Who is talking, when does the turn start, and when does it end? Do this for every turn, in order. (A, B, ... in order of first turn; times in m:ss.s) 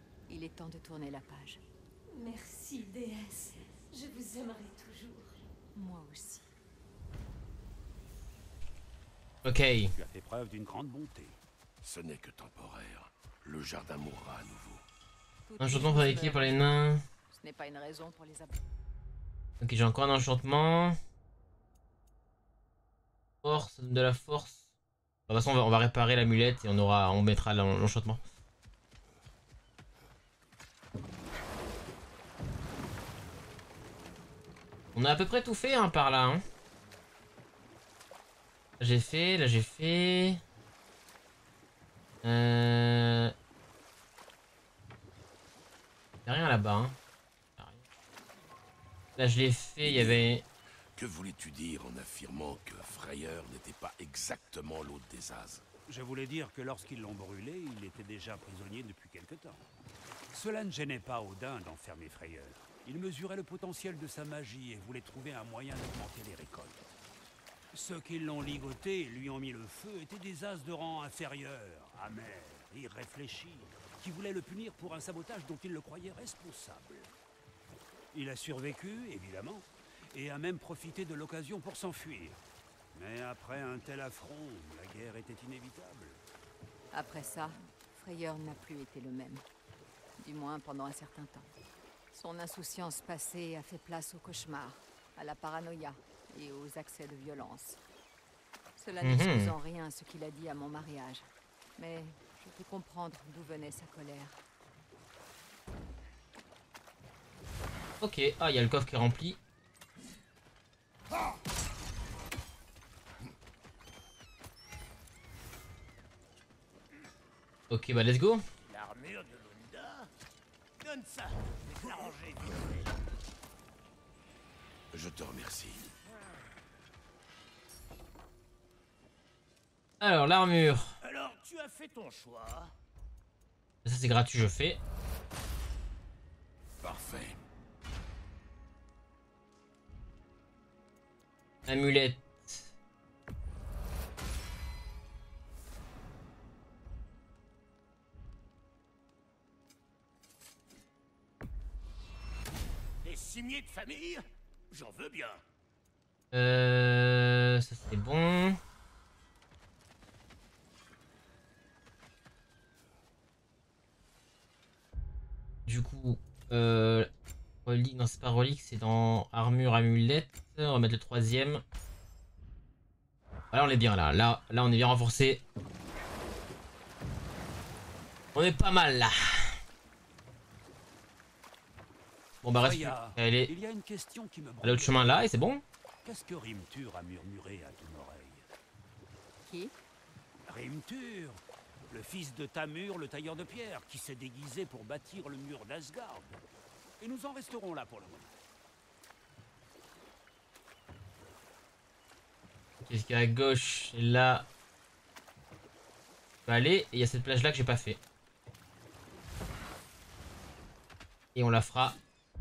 0:00.3-0:01.6 A
0:02.1-0:05.4 B
0:05.7-0:06.5 A
0:09.4-0:09.9 C
0:09.9-0:11.4 D
0:11.8-0:14.8 E
0:15.5-0:16.8 A
0:15.6-0:17.0 C
0:17.3-0:18.7 A
0:19.6-0:21.0 C
0:23.4-0:24.6 C
0:25.3-0:28.2 C
0:34.9-0:36.4 C
0:38.8-0:40.4 C
0:42.2-0:43.3 C
0:46.3-0:47.0 C
0:49.2-0:50.4 C
0:49.8-0:50.3 E
0:51.0-0:55.6 E
0:55.9-0:59.6 D
1:00.3-1:06.9 D
1:07.7-1:17.1 D
1:18.1-1:22.4 D
1:22.9-1:26.2 D
1:26.9-1:29.4 A
1:30.2-1:31.5 A
1:32.1-1:37.8 A
1:38.8-1:44.4 A
1:39.0-1:39.5 C
1:48.0-1:49.4 C
1:57.7-1:58.4 C
1:58.6-2:00.1 F
2:00.8-2:02.9 F
2:04.9-2:05.9 E
2:10.0-2:10.9 C
2:11.0-2:12.7 F
2:13.8-2:14.8 C
2:16.8-2:17.4 E
2:21.7-2:22.7 C
2:33.0-2:35.4 F
2:36.3-2:38.6 C
2:45.6-2:47.1 C
2:47.6-2:51.6 C
2:53.5-2:55.4 C
2:58.3-2:59.6 C
3:02.4-3:03.5 C
3:02.6-3:05.3 D
3:04.6-3:05.6 C
3:06.0-3:08.5 D
3:09.4-3:09.8 A
3:10.5-3:16.4 D
3:17.0-3:18.3 D
3:22.8-3:24.5 C
3:26.4-3:28.0 C
3:31.3-3:32.0 C